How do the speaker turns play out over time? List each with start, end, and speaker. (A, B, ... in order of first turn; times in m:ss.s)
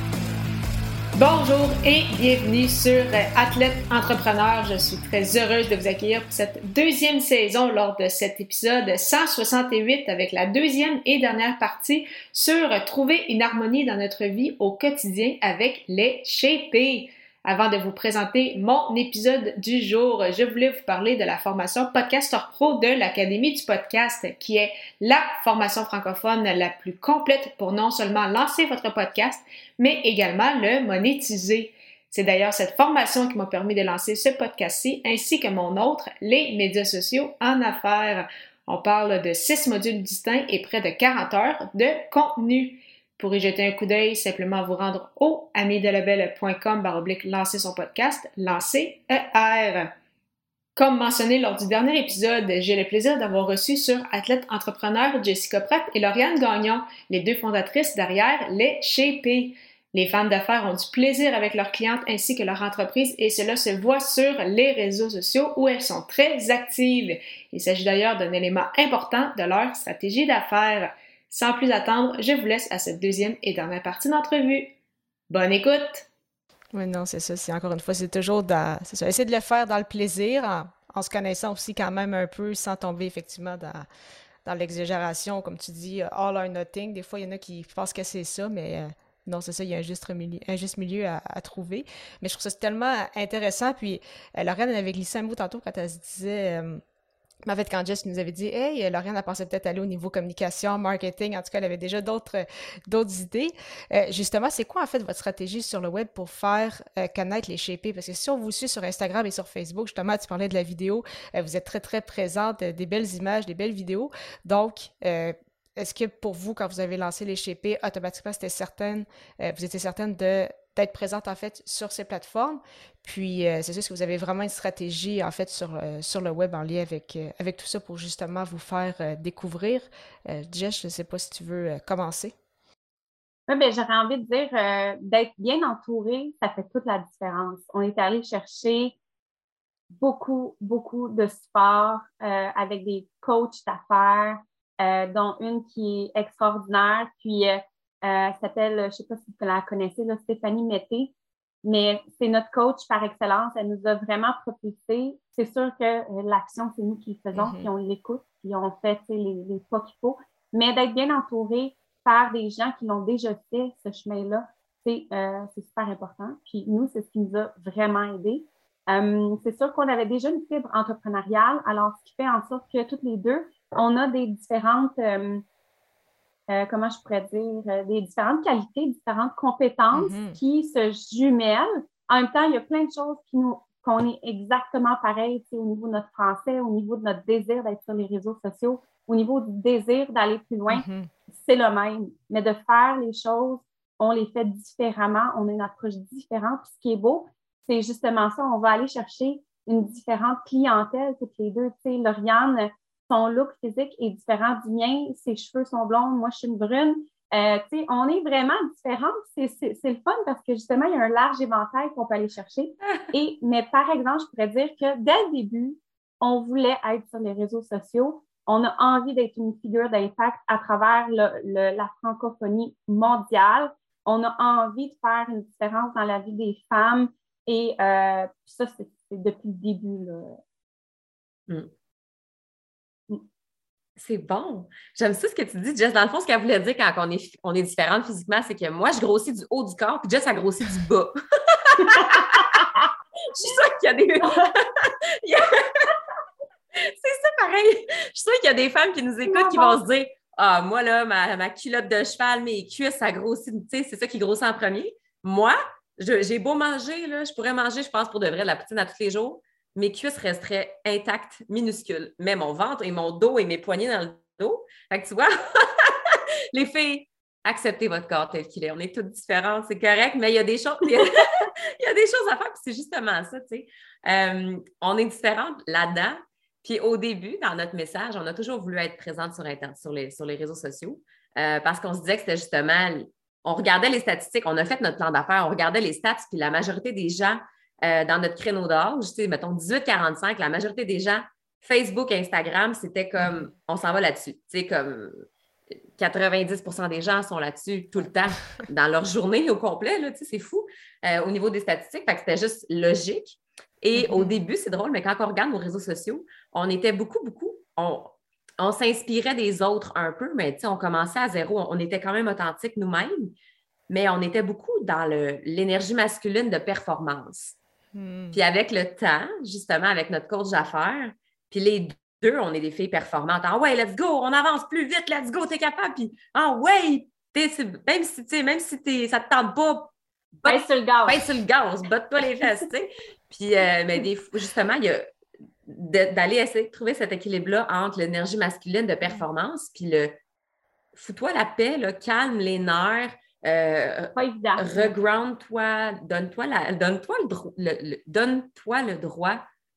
0:01.2-0:49.9 A
0:50.8-1:14.7 A
1:15.3-1:16.1 A
1:16.7-1:23.9 B
1:24.4-1:36.8 B
1:37.4-2:12.4 B
2:13.5-2:19.0 C
2:19.9-2:31.1 C
2:31.6-2:55.4 C
2:37.4-2:37.7 B
2:56.5-3:50.4 C
2:59.9-3:00.4 B
3:10.7-3:11.1 B
3:54.0-4:02.6 D
4:01.8-4:02.8 C
4:03.3-4:05.9 D
4:06.8-4:55.2 D
4:09.3-4:09.8 C
4:56.0-5:13.3 D
5:04.0-5:04.4 B
5:13.9-5:17.6 D
5:17.9-5:18.4 B
5:18.3-5:35.1 D
5:30.5-5:31.2 C
5:35.7-5:40.2 D
5:41.0-5:49.4 D
5:44.2-5:44.7 C